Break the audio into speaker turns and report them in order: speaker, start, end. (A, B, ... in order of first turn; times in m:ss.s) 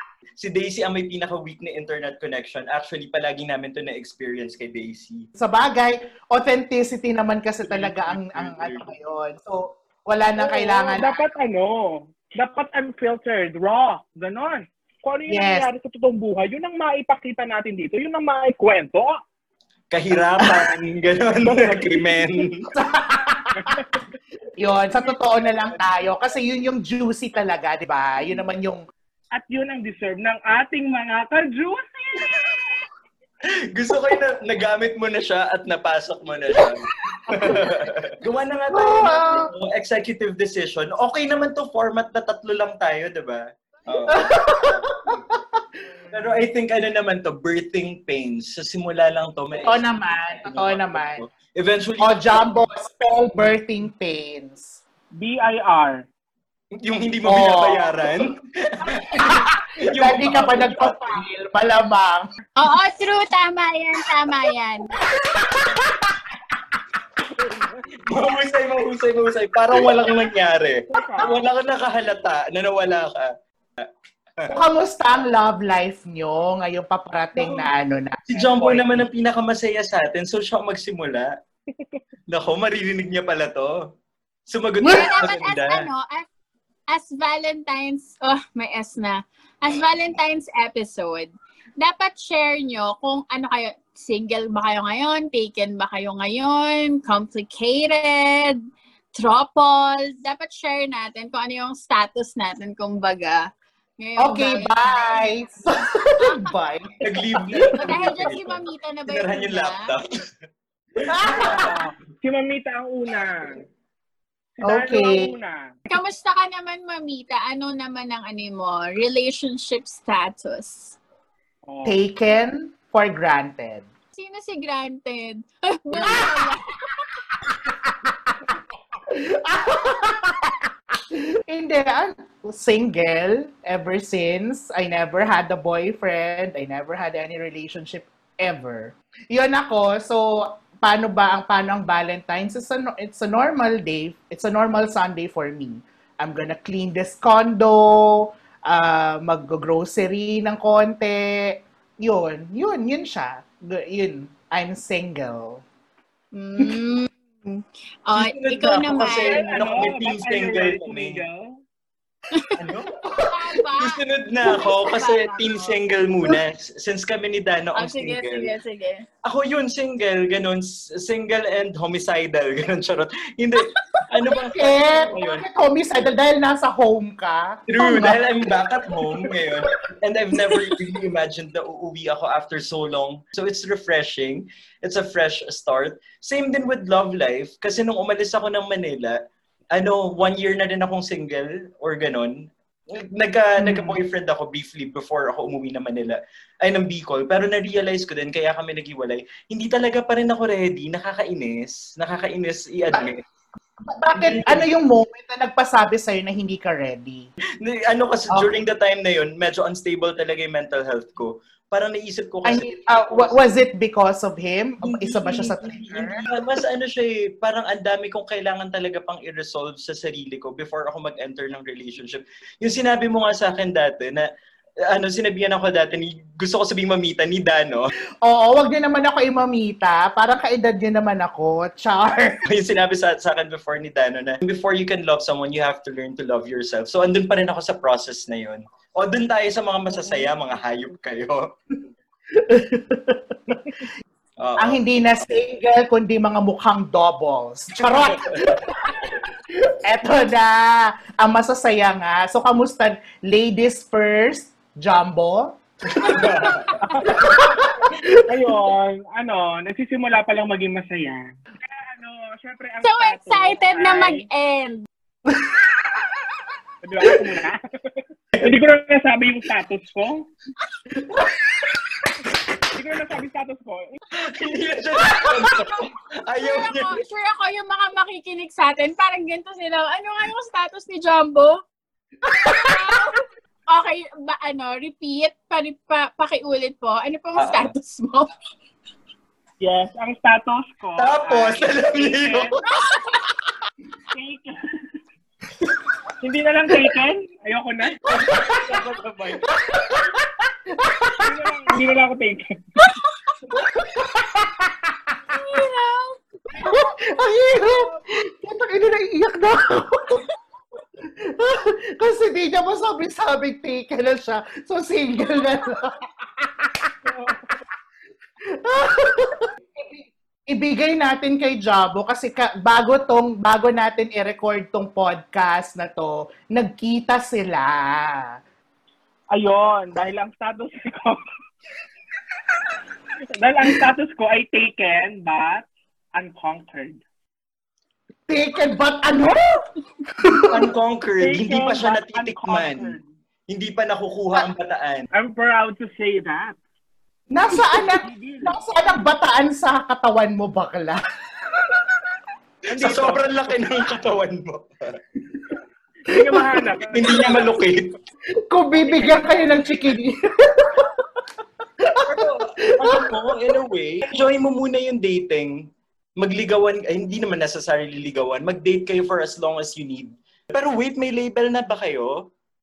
0:00.4-0:05.3 A
0:05.4-0:11.2 B
0:07.6-0:08.9 A
0:10.4-0:19.2 C
0:15.3-0:15.7 B
0:19.9-0:22.7 A
0:21.5-0:22.3 C
0:22.7-0:23.8 B
0:23.6-0:23.8 C
0:24.6-0:28.8 B
0:29.3-0:32.8 C
0:33.7-0:45.2 A
0:37.2-0:37.8 B
0:38.7-0:39.5 B
0:44.1-0:46.4 B
0:46.1-0:52.5 A
0:49.6-0:51.2 B
0:52.0-0:54.8 B
0:55.2-0:56.0 C
0:56.8-1:01.2 A
0:57.2-0:58.2 B
0:59.1-1:02.3 B
1:02.6-1:04.9 D
1:05.2-1:06.5 B
1:07.4-1:07.8 C
1:08.1-1:14.5 A
1:10.9-1:11.4 C
1:14.5-1:18.8 B
1:18.3-1:21.3 A
1:18.4-1:18.8 C
1:22.3-1:23.8 A
1:24.5-1:25.9 A
1:24.8-1:26.3 D
1:24.8-1:25.1 B
1:26.9-1:38.6 D
1:39.2-1:43.5 D
1:44.0-1:45.2 D
1:44.2-1:48.2 B
1:47.0-1:50.1 A
1:47.8-1:49.9 D
1:51.0-1:51.7 A
1:51.0-1:51.8 B
1:51.3-1:53.6 C
1:54.6-1:55.6 C
1:54.6-1:55.3 B
1:55.9-2:01.0 D
2:01.7-2:02.0 C
2:01.8-2:03.9 B
2:04.2-2:06.6 D
2:05.9-2:06.6 B
2:07.5-2:08.4 B
2:09.1-2:35.6 B
2:36.3-2:39.5 D
2:38.1-2:41.2 A
2:39.0-2:41.6 C
2:42.3-2:45.7 D
2:42.6-2:48.5 A
2:47.8-2:49.1 D
2:49.2-2:55.4 A
2:54.4-2:58.2 B
2:57.7-3:09.2 A
3:00.4-3:00.8 B
3:09.7-3:23.2 A
3:13.6-3:14.0 B
3:23.9-3:27.3 B
3:24.2-3:24.7 A
3:27.6-3:33.3 A
3:32.4-3:36.2 B
3:34.8-3:44.3 A
3:44.9-3:47.9 A
3:48.2-3:52.3 B
3:52.5-4:01.5 A
4:02.3-4:03.8 B
4:04.4-4:05.4 A
4:04.6-4:16.3 B
4:07.8-4:08.6 A
4:15.9-4:17.2 A
4:16.9-4:17.3 C
4:17.0-4:18.6 B
4:18.3-4:24.3 C
4:22.8-4:24.9 D
4:25.3-4:26.3 B
4:26.8-4:30.3 C
4:31.1-4:31.8 B
4:32.7-4:34.0 C
4:34.2-4:37.0 A
4:35.1-4:35.5 B
4:36.4-4:41.6 D
4:42.4-4:48.3 D
4:47.4-4:47.7 A
4:49.6-4:52.6 C
4:51.0-4:52.6 A
4:54.1-4:54.6 C
4:56.2-4:58.8 C
4:58.0-4:59.5 A
4:58.2-4:58.7 B
4:59.5-5:01.4 B
5:01.2-5:02.4 C
5:02.8-5:03.4 D
5:03.5-5:05.2 B
5:05.3-5:06.2 D
5:06.5-5:10.2 B
5:11.0-5:16.9 B
5:17.0-5:17.5 C
5:18.6-5:28.4 B
5:29.3-5:31.2 C
5:33.4-5:37.0 C
5:38.3-5:39.6 B
5:40.2-5:40.7 B
5:40.5-5:43.0 A
5:41.2-5:43.1 C
5:43.5-5:45.1 A
5:45.1-5:46.6 C
5:47.3-5:52.1 B
5:47.6-5:48.6 C
5:52.7-5:53.2 C
5:52.7-5:55.0 A
5:56.1-5:57.6 C
5:56.1-5:56.7 B
5:56.9-5:57.9 A
5:58.5-6:01.0 B
5:58.8-5:59.9 C
6:01.8-6:03.6 B
6:02.0-6:05.6 A
6:06.2-6:12.3 A